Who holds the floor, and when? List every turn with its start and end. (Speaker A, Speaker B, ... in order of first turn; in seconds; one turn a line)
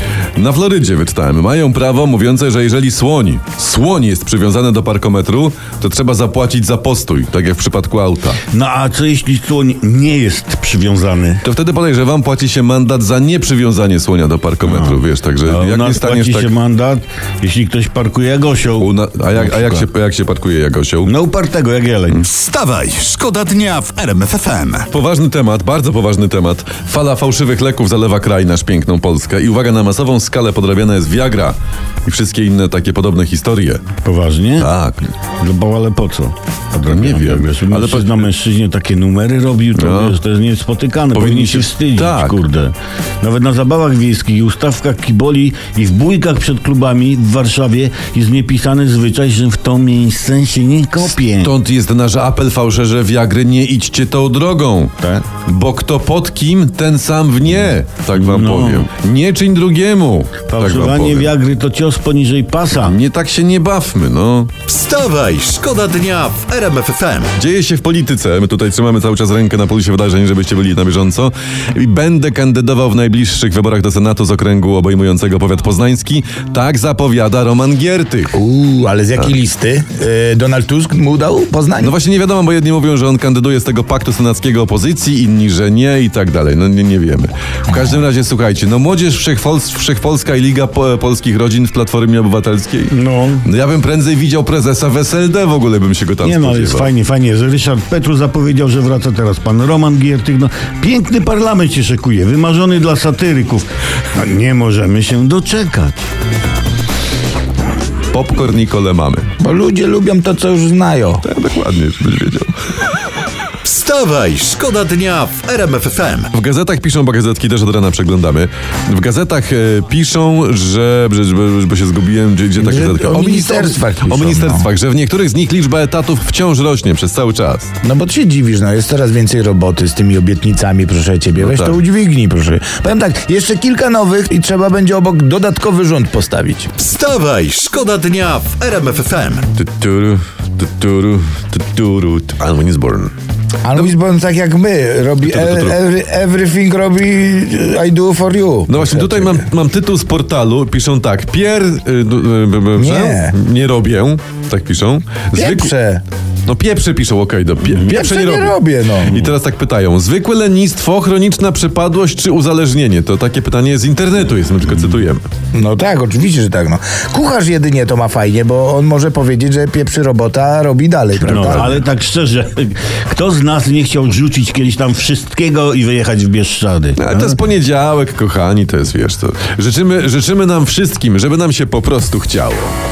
Speaker A: 0.4-8.4
Speaker B: 8.5-11.4
Speaker A: 11.4-16.6
Speaker B: 14.6-19.9
Speaker A: 18.8-21.2
Speaker B: 21.1-22.2
Speaker C: 22.2-24.9
Speaker A: 24.9-33.8
Speaker B: 34.0-34.7
Speaker A: 34.6-35.0
Speaker B: 35.4-51.5
Speaker A: 36.9-38.3
Speaker A: 39.8-40.2
Speaker A: 41.1-42.4
Speaker A: 51.0-61.3
Speaker B: 55.0-55.3
Speaker B: 58.1-58.9
Speaker B: 60.5-63.0
Speaker A: 62.7-64.5
Speaker C: 64.7-67.3
Speaker A: 67.4-78.4
Speaker D: 78.3-81.9
Speaker A: 81.8-96.9
Speaker B: 92.9-93.5
Speaker B: 96.2-106.0
Speaker A: 108.1-109.3
Speaker D: 109.4-111.2
Speaker A: 111.2-112.5
Speaker C: 113.6-116.3
Speaker A: 116.3-127.7
Speaker D: 122.6-124.7
Speaker D: 127.8-136.7
Speaker A: 131.4-131.8
Speaker C: 136.8-139.5
Speaker A: 139.6-143.1
Speaker D: 143.6-149.5
Speaker A: 145.2-145.8
Speaker A: 148.7-155.7
Speaker D: 152.8-153.3
Speaker D: 155.3-156.0
Speaker A: 156.5-165.2
Speaker D: 157.8-159.3
Speaker D: 165.5-171.9
Speaker B: 171.2-177.3
Speaker A: 177.0-182.7